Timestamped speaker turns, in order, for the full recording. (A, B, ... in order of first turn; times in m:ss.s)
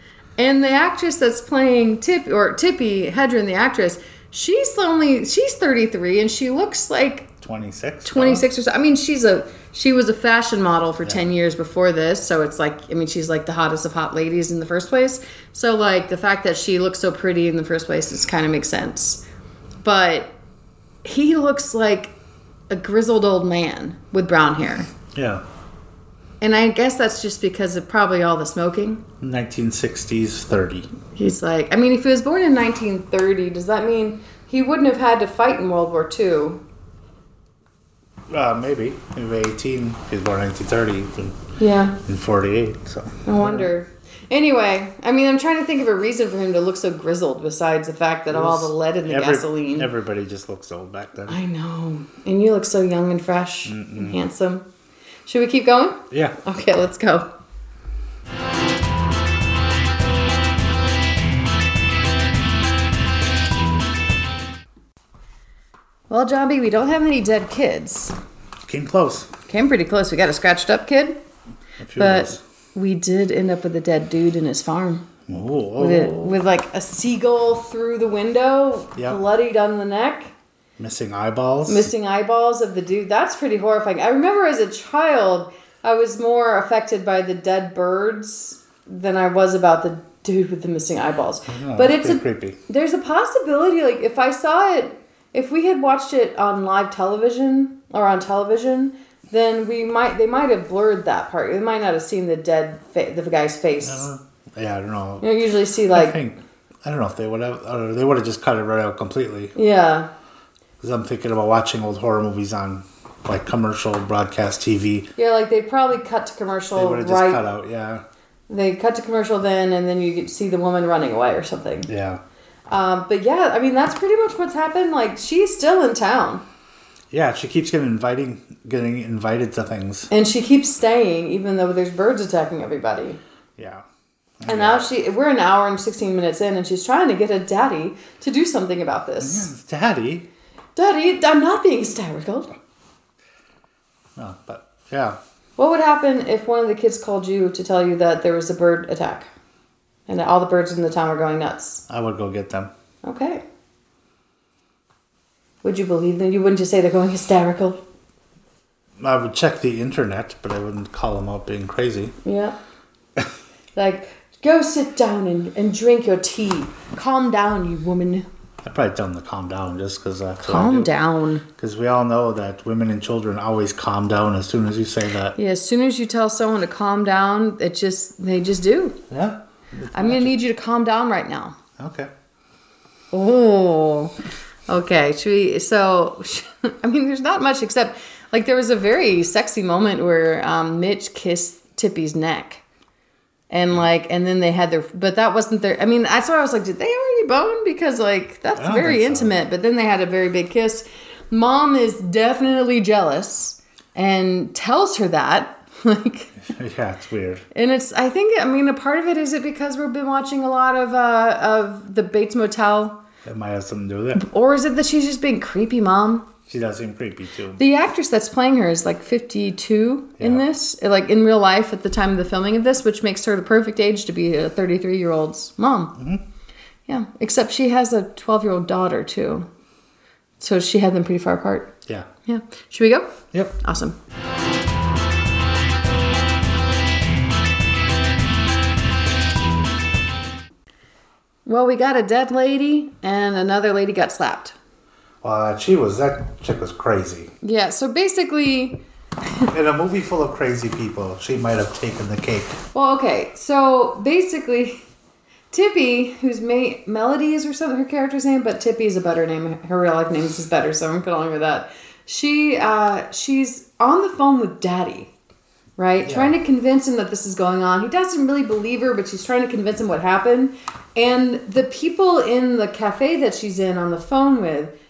0:00.4-0:07.3 A
0:07.4-0:08.4 B
0:08.0-0:19.2 A
0:19.8-0:20.3 A
0:21.0-0:22.1 A
0:22.7-0:24.9 A
0:25.1-0:25.4 B
0:26.4-0:29.0 A
0:29.2-0:30.9 B
0:31.1-0:36.6 A
0:38.3-0:41.4 B
0:41.6-0:42.0 A
0:42.0-0:43.7 B
0:43.2-0:49.9 A
0:48.3-0:51.4 B
0:51.3-0:54.7 A
0:53.6-0:54.2 B
0:55.2-0:57.3 A
0:56.1-0:56.4 B
1:06.1-1:08.1 A
1:08.6-1:09.3 B
1:09.5-1:11.2 A
1:11.8-1:12.4 B
1:12.0-1:15.1 A
1:15.3-1:16.4 B
1:15.8-1:20.3 A
1:20.8-1:21.9 B
1:21.7-1:44.1 A
1:31.5-1:32.6 B
1:43.8-1:45.3 B
1:45.2-1:46.2 A
1:45.9-1:49.5 B
1:49.5-1:50.1 A
1:50.8-1:55.1 B
1:55.2-1:57.4 A
1:56.7-1:58.0 B
1:58.5-2:01.9 A
2:01.9-2:02.2 B
2:02.7-2:06.4 A
2:07.1-2:10.1 B
2:10.1-2:13.2 A
2:13.6-2:13.8 B
2:14.4-2:14.9 B
2:14.4-2:19.5 A
2:19.2-2:20.3 B
2:20.8-2:22.5 A
2:24.2-2:25.2 B
2:25.6-2:29.3 A
2:30.1-2:31.8 A
2:31.9-2:32.7 B
2:33.0-2:33.4 A
2:35.6-2:37.8 A
2:39.0-2:42.1 B
2:42.2-2:42.6 A
2:43.8-2:48.2 A
2:48.6-2:50.9 B
2:50.4-2:51.4 A
2:51.6-2:55.4 B
2:55.4-2:59.0 A
2:59.1-3:00.4 B
2:59.9-3:01.6 A
3:01.8-3:02.1 B
3:03.1-3:04.1 A
3:04.7-3:12.6 A
3:13.5-3:26.3 A
3:18.6-3:19.3 B
3:26.4-3:27.4 B
3:27.5-3:33.0 A
3:33.2-3:34.2 B
3:34.2-3:36.3 A
3:36.5-3:37.6 B
3:37.6-3:45.9 A
3:40.2-3:40.4 B
3:46.0-3:46.2 B
3:46.9-3:49.5 A
3:50.4-3:51.7 A
3:52.3-3:54.0 A
4:01.4-4:04.5 A
4:05.2-4:07.3 B
4:07.4-4:08.8 A
4:09.5-4:12.6 B
4:12.7-4:14.8 A
4:15.5-4:25.1 A
4:25.8-4:34.7 A
4:26.0-4:26.3 B